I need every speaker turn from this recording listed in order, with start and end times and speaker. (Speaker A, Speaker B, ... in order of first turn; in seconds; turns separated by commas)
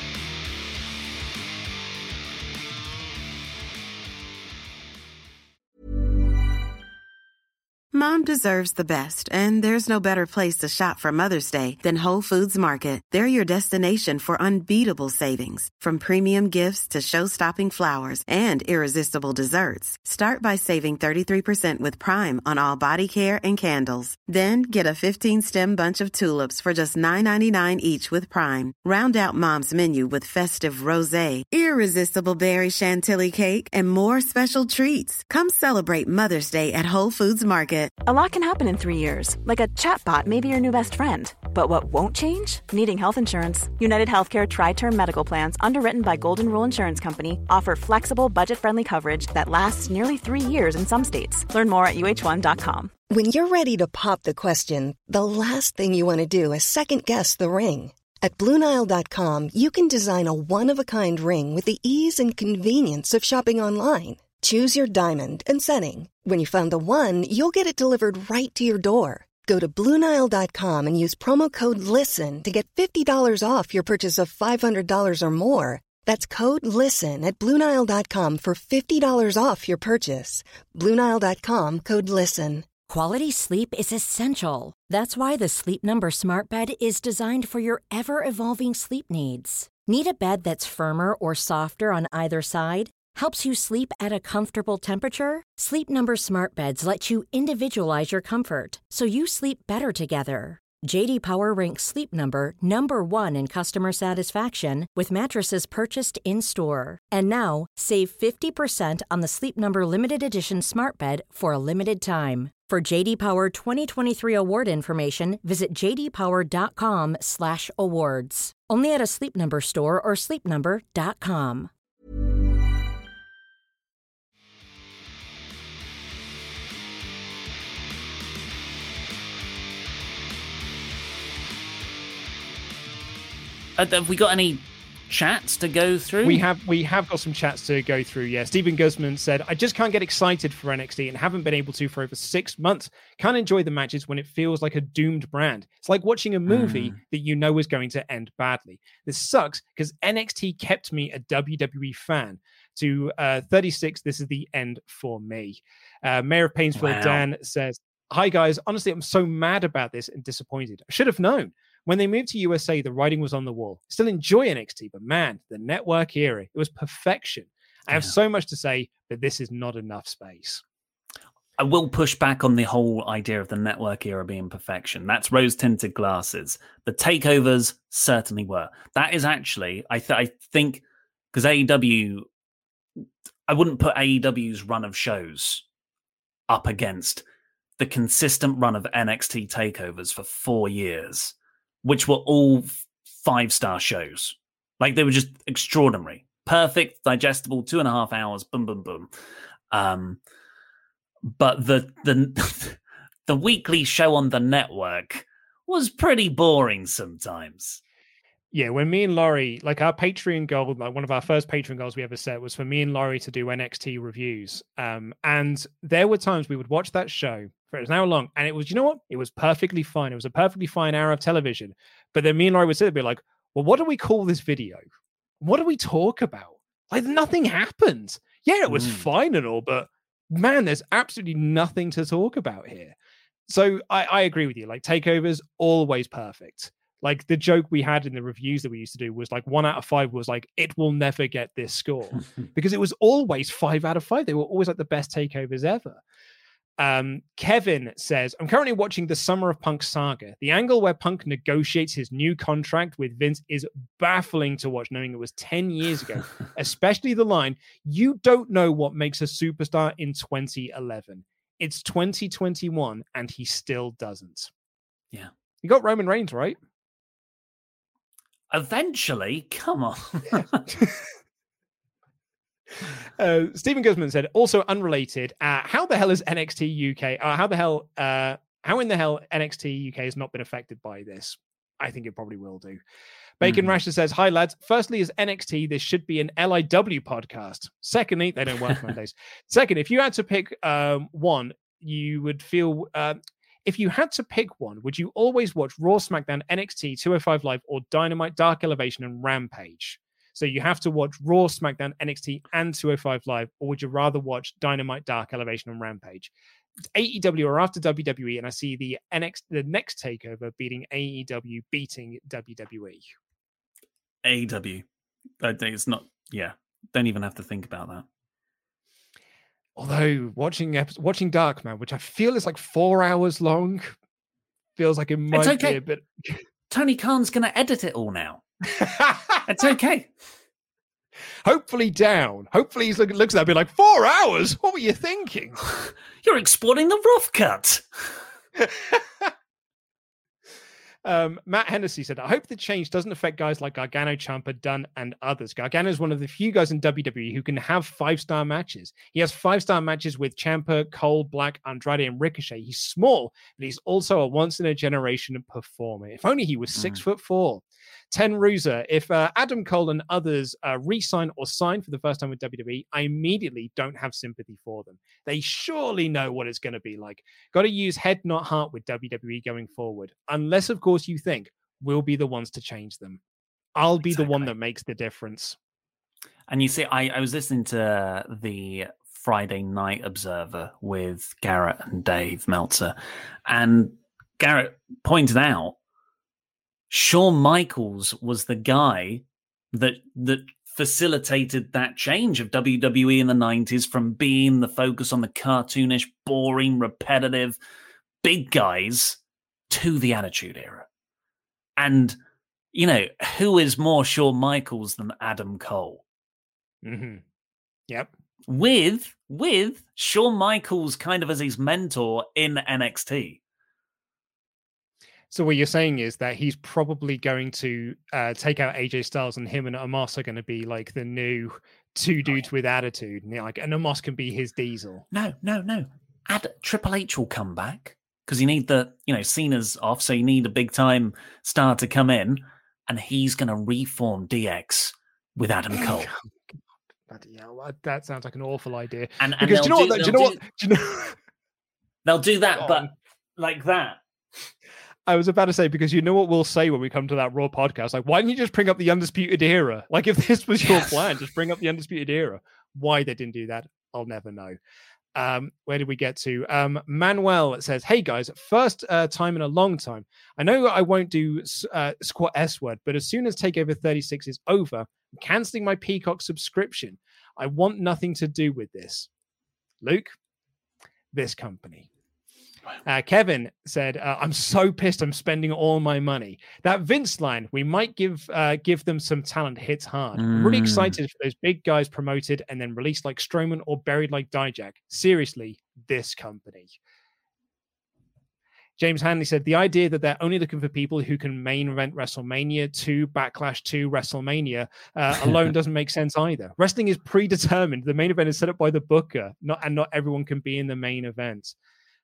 Speaker A: 7.9-37.9, Speaker B: 38.0-52.9, Speaker C: 53.1-82.7, Speaker D: 82.9-121.7, Speaker E: 133.8-136.4, Speaker F: 136.2-170.6, Speaker E: 146.5-147.0, Speaker E: 156.8-157.3, Speaker E: 171.6-182.3, Speaker E: 183.5-185.6, Speaker E: 186.5-187.2, Speaker E: 187.8-199.1, Speaker E: 199.7-200.2, Speaker E: 201.2-207.8, Speaker F: 208.5-224.8, Speaker F: 225.4-232.9, Speaker E: 228.7-229.1, Speaker F: 233.5-246.0, Speaker F: 246.8-264.5, Speaker F: 265.6-266.6, Speaker E: 268.5-270.7, Speaker F: 270.7-271.1, Speaker F: 273.0-282.8, Speaker F: 283.4-306.3, Speaker E: 283.4-283.8, Speaker F: 306.9-313.1, Speaker E: 314.2-314.9, Speaker E: 315.4-318.1, Speaker F: 319.8-323.9, Speaker F: 324.8-326.4, Speaker E: 325.3-325.8, Speaker E: 326.7-328.4, Speaker F: 328.7-329.4, Speaker E: 329.5-330.1, Speaker F: 331.4-335.6, Speaker E: 335.7-337.8, Speaker F: 338.6-339.3, Speaker F: 341.1-373.2, Speaker E: 356.8-357.0, Speaker F: 373.8-375.6, Speaker E: 374.0-374.5, Speaker E: 376.5-385.8, Speaker E: 386.9-397.6, Speaker E: 398.2-399.2, Speaker E: 399.7-400.9, Speaker E: 401.8-402.2, Speaker E: 402.7-406.0, Speaker F: 406.8-407.2, Speaker E: 408.5-413.4, Speaker F: 415.3-425.1, Speaker E: 425.1-436.1, Speaker F: 435.7-436.2, Speaker F: 437.1-441.2, Speaker E: 439.2-440.4, Speaker E: 442.1-444.0, Speaker F: 442.6-442.9, Speaker F: 445.1-454.6, Speaker E: 450.7-451.0, Speaker F: 455.1-469.1, Speaker F: 469.8-470.1, Speaker F: 471.1-471.9, Speaker F: 472.9-486.8, Speaker E: 480.1-481.0, Speaker F: 488.8-501.6